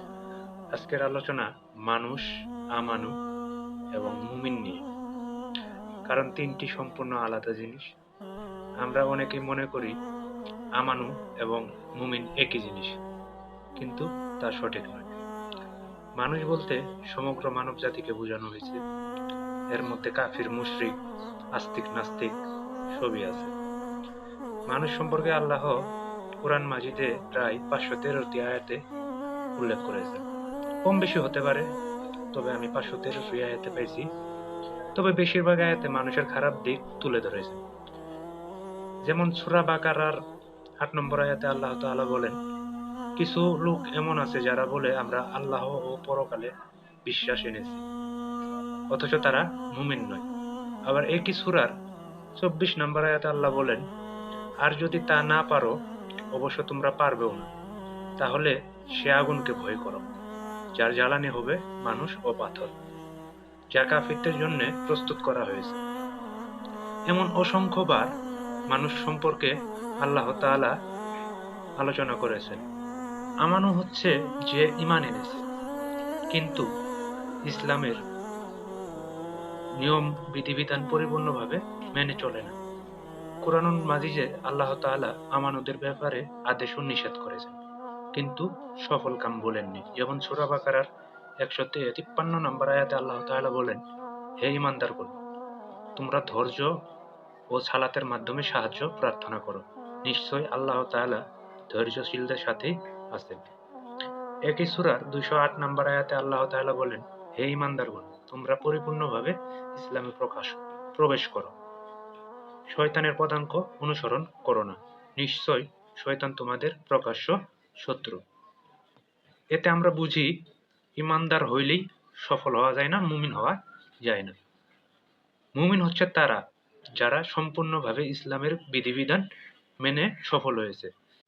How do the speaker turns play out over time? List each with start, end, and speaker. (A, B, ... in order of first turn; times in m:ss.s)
0:00.8-0:03.1 A
0:04.0-0:04.8 A
0:06.1-0:07.8 A
0:08.8-0:09.9 A
0:10.8-0:13.0 A
0:13.8-0:15.1 A
0:16.2-0:18.8 A
0:19.7-0:21.0 A
0:21.6-0:22.3 A
0:23.0-0:23.5 A
0:24.7-0:25.8 A
0:26.4-0:28.8 A
0:29.6-0:30.2 A
0:30.8-0:31.7 A
0:32.3-0:34.0 A
0:35.0-0:37.6 A
0:39.1-0:40.2 A
0:40.8-0:42.4 A
0:43.2-0:46.5 A
0:47.1-0:47.8 A
0:48.9-0:50.3 A
0:50.9-0:51.7 A
0:52.4-0:53.8 A
0:54.6-0:55.7 A
0:56.4-0:57.5 A
0:58.2-1:00.1 A
1:00.8-1:02.7 A
1:03.7-1:05.8 A
1:07.1-1:08.1 A
1:08.7-1:09.5 A
1:10.0-1:10.8 A
1:11.8-1:12.6 A
1:13.4-1:15.4 A
1:16.3-1:16.6 A
1:17.5-1:18.0 A
1:19.8-1:22.6 A
1:23.4-1:27.6 A
1:28.2-1:30.9 A
1:31.4-1:33.8 A
1:34.4-1:35.1 A
1:36.0-1:36.7 A
1:37.5-1:43.4 A
1:44.5-1:51.5 A
1:52.7-1:58.2 A
1:59.5-2:00.3 A
2:01.0-2:04.4 A
2:05.6-2:06.4 A
2:07.0-2:09.2 A
2:09.8-2:10.9 A